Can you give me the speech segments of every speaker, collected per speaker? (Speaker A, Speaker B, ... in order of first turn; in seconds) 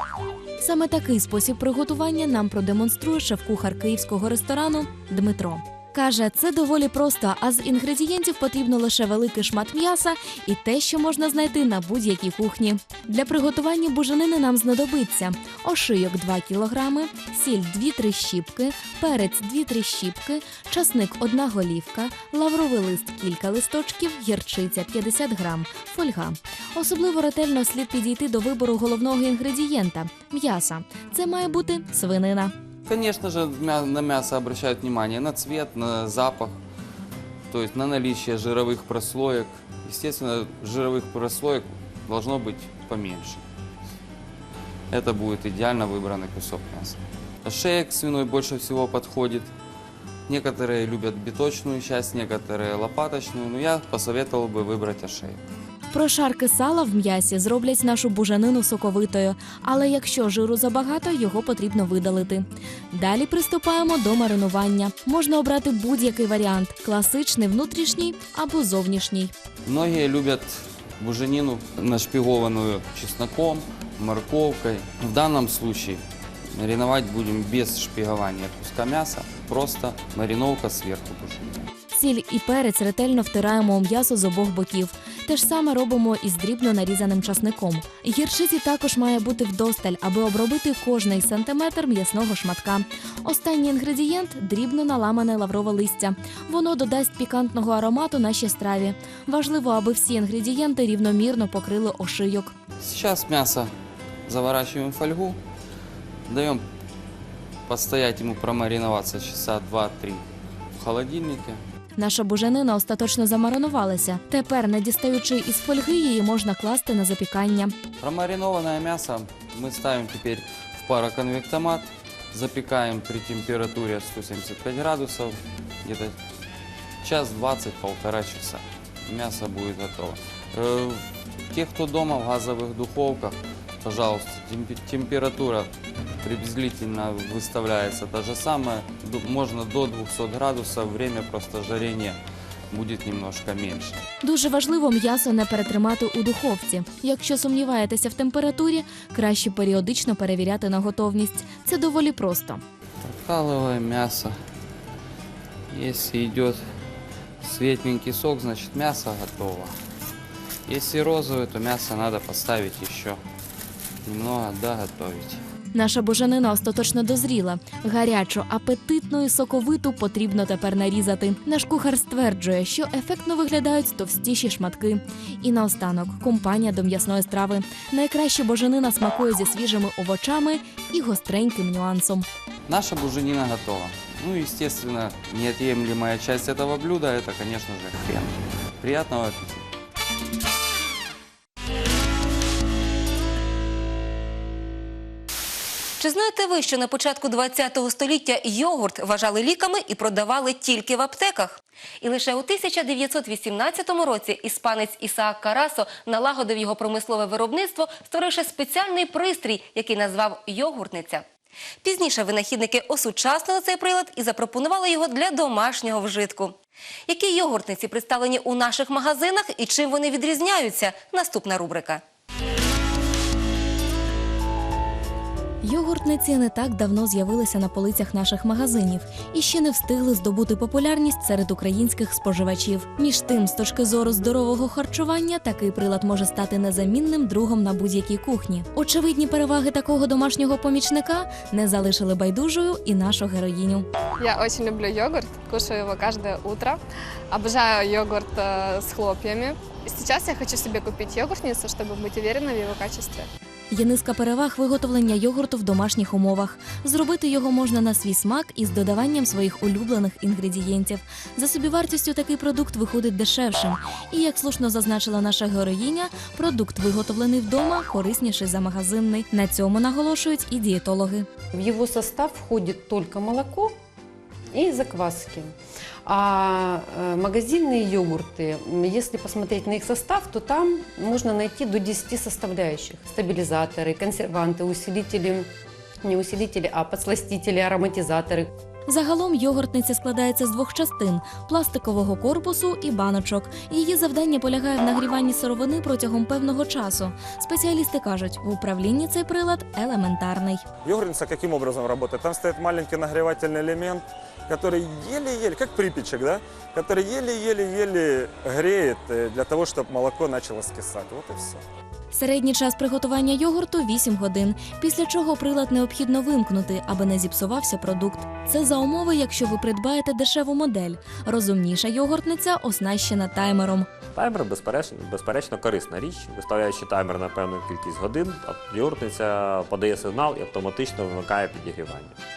Speaker A: 0.6-32.5, 55.9-69.3, 81.9-102.5, 112.0-117.7, 144.2-152.6, 165.7-182.2, 225.6-243.9, 253.7-271.3, 288.9-300.6, 312.1-323.9
Speaker B: 32.8-36.6, 37.5-43.4, 44.9-49.5, 50.3-55.4, 69.7-76.0, 76.5-81.6, 102.8-103.7, 104.2-105.4, 106.3-106.6, 107.7-110.2, 110.8-111.6, 118.0-126.1, 127.0-135.7, 136.2-142.2, 142.7-144.0, 153.0-154.4, 155.7-156.6, 157.4-159.7, 160.7-163.2, 164.0-165.4, 182.7-189.7
Speaker C: 196.0-211.2, 211.8-216.5, 217.1-222.0
Speaker D: 244.2-246.8, 247.3-253.3
Speaker E: 271.5-273.7, 274.5-275.5, 276.0-285.5, 286.0-288.5
Speaker F: 300.8-311.6
Speaker G: 324.1-332.1